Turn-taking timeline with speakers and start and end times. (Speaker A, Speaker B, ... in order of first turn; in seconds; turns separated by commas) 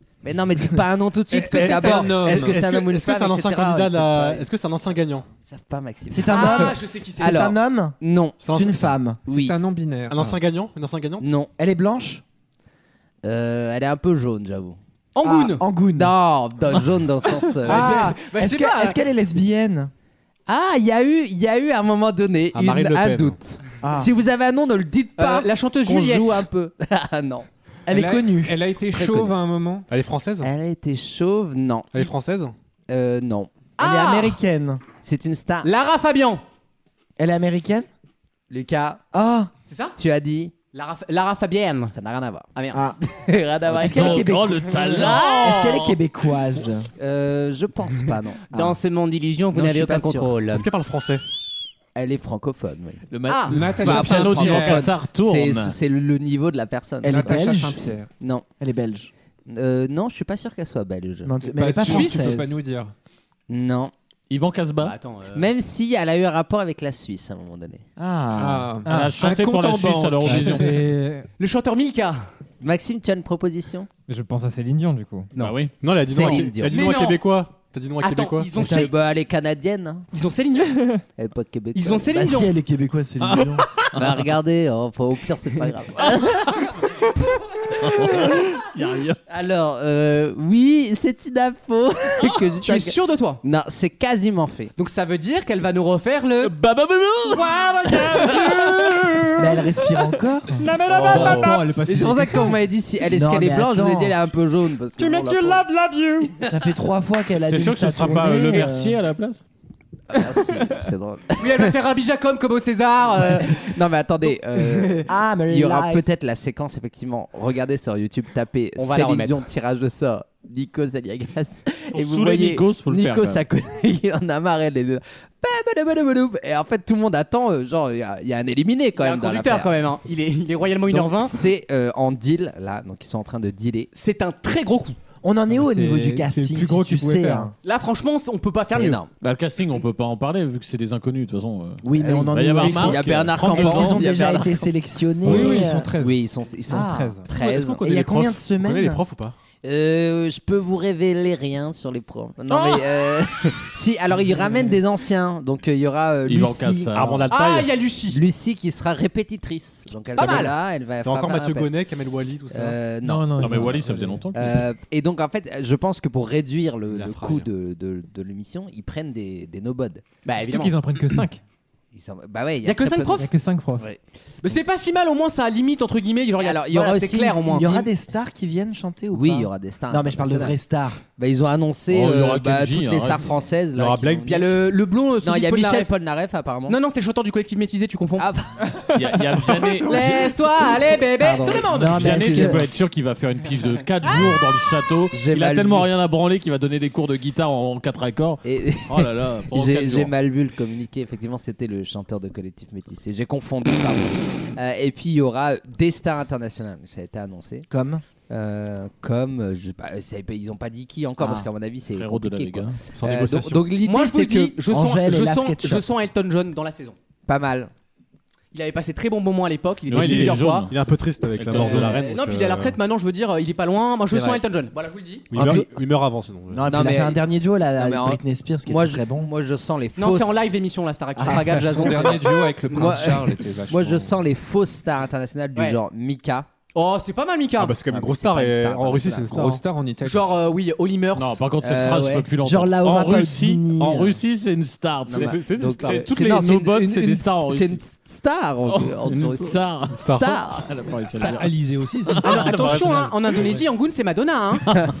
Speaker A: 0.2-4.5, Speaker B: 1.3-5.2, Speaker C: 1.6-2.5, Speaker A: 5.4-8.4, Speaker D: 6.1-9.2, Speaker E: 6.3-7.4, Speaker B: 8.4-8.9, Speaker A: 9.2-9.6, Speaker C: 9.2-10.4, Speaker B: 10.1-11.3, Speaker A: 11.2-11.5, Speaker D: 11.6-12.2, Speaker A: 13.2-14.8, Speaker E: 15.2-15.6, Speaker D: 15.2-16.1, Speaker A: 15.9-18.1, Speaker E: 17.6-19.0, Speaker D: 17.6-19.9, Speaker A: 20.5-27.4, Speaker B: 22.5-23.4, Speaker D: 23.8-24.1, Speaker E: 25.2-26.5, Speaker D: 27.9-28.6, Speaker C: 27.9-29.9, Speaker A: 28.9-29.3, Speaker B: 29.9-30.5, Speaker A: 30.4-32.1, Speaker B: 31.9-32.5, Speaker A: 32.9-33.5, Speaker E: 33.8-34.4, Speaker D: 33.8-34.8, Speaker A: 35.0-35.7, Speaker E: 35.6-36.4, Speaker D: 37.2-37.9, Speaker A: 38.5-39.0, Speaker D: 39.1-39.5, Speaker E: 39.6-40.0, Speaker A: 40.0-40.6, Speaker E: 40.7-41.9, Speaker A: 41.9-42.5, Speaker E: 42.5-42.8, Speaker A: 43.1-44.4, Speaker F: 43.7-46.0, Speaker D: 43.7-46.9, Speaker E: 44.8-45.6, Speaker A: 47.0-50.5, Speaker E: 48.6-50.6, Speaker B: 50.4-51.2, Speaker A: 51.9-57.5, Speaker E: 53.3-53.6, Speaker C: 53.5-54.9, Speaker F: 53.8-55.8, Speaker D: 57.0-57.8, Speaker C: 57.1-58.1, Speaker A: 58.2-58.5, Speaker D: 58.6-59.1, Speaker A: 59.5-61.8, Speaker D: 61.2-62.5, Speaker C: 61.5-62.9, Speaker E: 61.8-62.4, Speaker A: 63.5-63.9, Speaker F: 64.3-64.9, Speaker E: 64.8-65.5, Speaker A: 65.3-67.8, Speaker D: 68.0-68.7, Speaker C: 68.3-70.8, Speaker G: 68.8-69.2, Speaker F: 68.8-70.7, Speaker G: 70.2-71.3, Speaker E: 71.4-72.3, Speaker A: 72.6-73.9, Speaker G: 74.1-75.3, Speaker F: 75.3-75.7, Speaker B: 75.8-78.6, Speaker A: 75.9-76.8, Speaker E: 76.7-77.2, Speaker E: 78.0-78.9, Speaker A: 78.6-80.1, Speaker E: 80.1-81.0, Speaker A: 81.2-82.2, Speaker E: 81.7-82.5, Speaker D: 82.1-83.7, Speaker F: 83.2-84.3, Speaker A: 83.9-86.6, Speaker F: 86.0-86.7, Speaker F: 87.7-89.2, Speaker A: 89.3-94.7, Speaker E: 92.6-93.4, Speaker E: 94.8-96.5, Speaker F: 96.4-99.8, Speaker E: 98.2-98.7, Speaker D: 99.4-100.7, Speaker F: 100.6-101.4, Speaker A: 100.9-105.7, Speaker E: 100.9-101.5, Speaker H: 100.9-102.6, Speaker G: 101.4-101.8, Speaker D: 103.1-104.2, Speaker F: 105.6-106.2, Speaker D: 106.4-109.0, Speaker F: 107.3-109.4, Speaker A: 110.1-111.7, Speaker E: 111.4-113.8, Speaker A: 113.5-129.7, Speaker D: 115.0-116.0, Speaker E: 118.8-119.4, Speaker F: 121.9-123.4, Speaker E: 129.0-131.4, Speaker A: 130.9-133.9, Speaker E: 133.9-135.0, Speaker D: 135.2-137.5, Speaker G: 135.5-137.5, Speaker E: 137.6-139.0, Speaker A: 138.7-139.1, Speaker F: 139.2-144.0, Speaker D: 141.8-145.9, Speaker A: 141.9-144.6, Speaker B: 142.9-143.3, Speaker G: 145.2-147.3, Speaker A: 145.3-147.9, Speaker D: 146.7-149.0, Speaker B: 147.4-149.3, Speaker A: 149.6-157.2, Speaker E: 152.5-152.8, Speaker F: 156.3-157.7, Speaker B: 156.9-157.5, Speaker E: 157.3-158.2, Speaker A: 158.1-161.7, Speaker E: 160.2-160.5, Speaker B: 160.2-160.4, Speaker B: 161.0-162.8, Speaker A: 162.5-163.8, Speaker G: 163.0-164.3, Speaker F: 163.4-164.7, Speaker A: 164.3-170.0, Speaker B: 166.9-167.5, Speaker E: 170.2-171.2, Speaker G: 170.4-171.4, Speaker A: 171.9-173.2, Speaker E: 172.6-173.3, Speaker G: 173.2-173.8, Speaker A: 173.8-174.6, Speaker E: 174.4-177.9, Speaker A: 176.4-177.8, Speaker D: 177.5-181.0, Speaker A: 179.1-180.6, Speaker A: 181.2-184.6, Speaker F: 181.9-183.3, Speaker B: 183.7-184.4, Speaker E: 184.3-185.9, Speaker A: 185.2-186.8, Speaker E: 186.7-188.3, Speaker A: 188.2-189.0, Speaker F: 188.9-190.3, Speaker E: 189.5-192.3, Speaker A: 191.1-192.6, Speaker D: 191.7-192.6, Speaker F: 191.9-200.1, Speaker A: 195.1-195.9, Speaker A: 198.4-207.7, Speaker D: 207.7-208.0, Speaker A: 208.3-214.6, Speaker D: 211.2-211.4, Speaker F: 211.9-212.8, Speaker B: 212.9-213.8, Speaker E: 213.8-216.9, Speaker D: 214.7-215.8, Speaker A: 217.3-217.7, Speaker E: 218.5-220.7, Speaker F: 219.9-220.7, Speaker B: 219.9-222.8, Speaker F: 221.3-222.0, Speaker E: 221.5-225.6, Speaker A: 224.1-224.4, Speaker B: 225.3-226.7, Speaker A: 225.3-225.7, Speaker D: 226.5-229.3, Speaker A: 226.6-230.5, Speaker E: 230.0-232.9, Speaker D: 231.2-231.4, Speaker A: 231.3-236.5, Speaker C: 231.4-234.2, Speaker E: 236.7-237.8, Speaker B: 237.6-239.6, Speaker A: 237.8-239.4, Speaker C: 239.3-240.3, Speaker E: 240.0-241.4, Speaker F: 241.2-247.8, Speaker A: 241.6-242.3, Speaker D: 242.4-244.2, Speaker A: 245.1-250.7, Speaker B: 245.1-246.1, Speaker F: 248.6-251.5, Speaker B: 249.9-250.4, Speaker H: 251.2-253.6, Speaker F: 252.0-253.0, Speaker E: 252.2-254.7